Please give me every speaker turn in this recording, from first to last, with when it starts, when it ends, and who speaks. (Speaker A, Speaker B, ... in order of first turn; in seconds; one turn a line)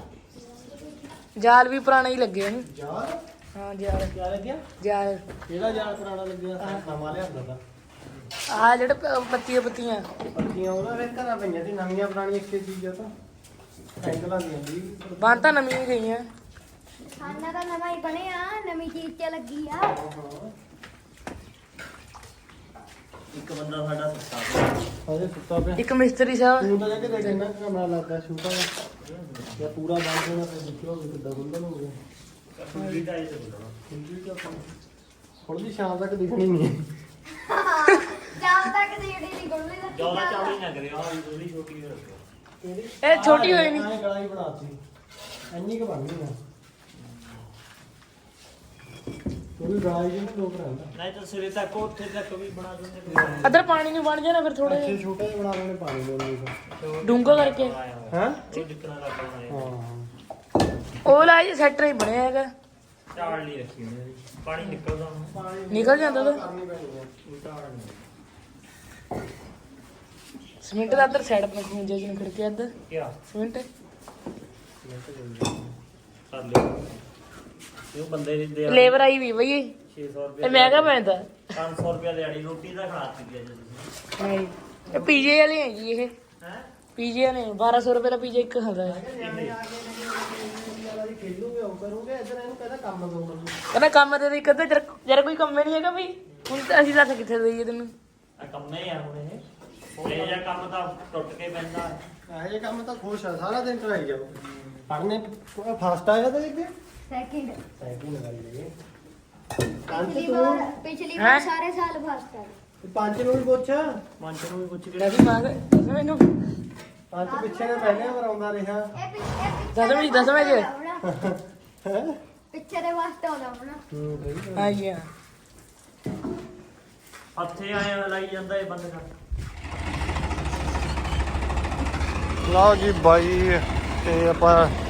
Speaker A: 1.4-2.6
Speaker B: 2.6-3.2
Speaker A: 3.5-4.1
Speaker B: 4.2-4.6
Speaker A: 4.8-5.2
Speaker B: 5.5-7.6
Speaker A: 8.5-10.1
Speaker B: 10.3-13.1
Speaker B: 14.0-15.6
Speaker A: 15.2-16.2
Speaker C: 17.1-19.9
Speaker B: 19.8-20.5
Speaker D: 23.3-24.8
Speaker B: 25.1-25.8
Speaker A: 25.8-26.7
Speaker B: 26.6-28.7
Speaker D: 26.8-27.4
Speaker D: 29.0-29.7
Speaker B: 29.6-32.0
Speaker D: 32.5-33.8
Speaker B: 33.9-34.7
Speaker B: 35.4-36.9
Speaker C: 37.3-40.6
Speaker D: 39.9-42.2
Speaker B: 42.6-44.8
Speaker A: 43.0-43.9
Speaker B: 45.5-46.4
Speaker D: 47.0-47.4
Speaker B: 49.6-50.9
Speaker D: 51.0-53.6
Speaker B: 53.1-53.5
Speaker A: 53.4-55.0
Speaker B: 54.6-56.5
Speaker D: 56.7-59.7
Speaker A: 57.0-57.7
Speaker B: 58.1-58.4
Speaker B: 59.5-60.1
Speaker A: 61.0-62.5
Speaker D: 63.1-65.3
Speaker B: 65.3-67.2
Speaker A: 65.7-66.4
Speaker D: 67.3-68.0
Speaker A: 70.6-72.7
Speaker B: 70.9-71.1
Speaker D: 72.9-73.1
Speaker A: 73.3-73.7
Speaker B: 74.8-75.7
Speaker D: 76.3-77.0
Speaker D: 77.9-79.0
Speaker A: 78.7-79.8
Speaker D: 79.9-81.0
Speaker A: 80.4-81.4
Speaker D: 81.5-83.9
Speaker A: 84.2-86.1
Speaker B: 84.9-85.3
Speaker D: 86.4-86.7
Speaker A: 87.0-89.0
Speaker B: 88.8-93.6
Speaker D: 89.2-89.6
Speaker A: 93.7-97.9
Speaker D: 98.4-99.4
Speaker D: 100.0-102.0
Speaker B: 100.0-100.4
Speaker B: 102.3-106.7
Speaker C: 107.1-107.6
Speaker B: 107.8-108.7
Speaker B: 109.9-110.7
Speaker C: 109.9-112.6
Speaker A: 111.2-111.5
Speaker B: 112.8-115.2
Speaker A: 115.0-116.3
Speaker B: 117.1-119.0
Speaker C: 117.2-118.2
Speaker C: 119.0-121.1
Speaker A: 119.7-120.7
Speaker B: 121.0-122.2
Speaker C: 122.5-123.8
Speaker B: 123.9-124.8
Speaker A: 124.6-125.1
Speaker D: 127.3-129.1
Speaker B: 132.4-134.7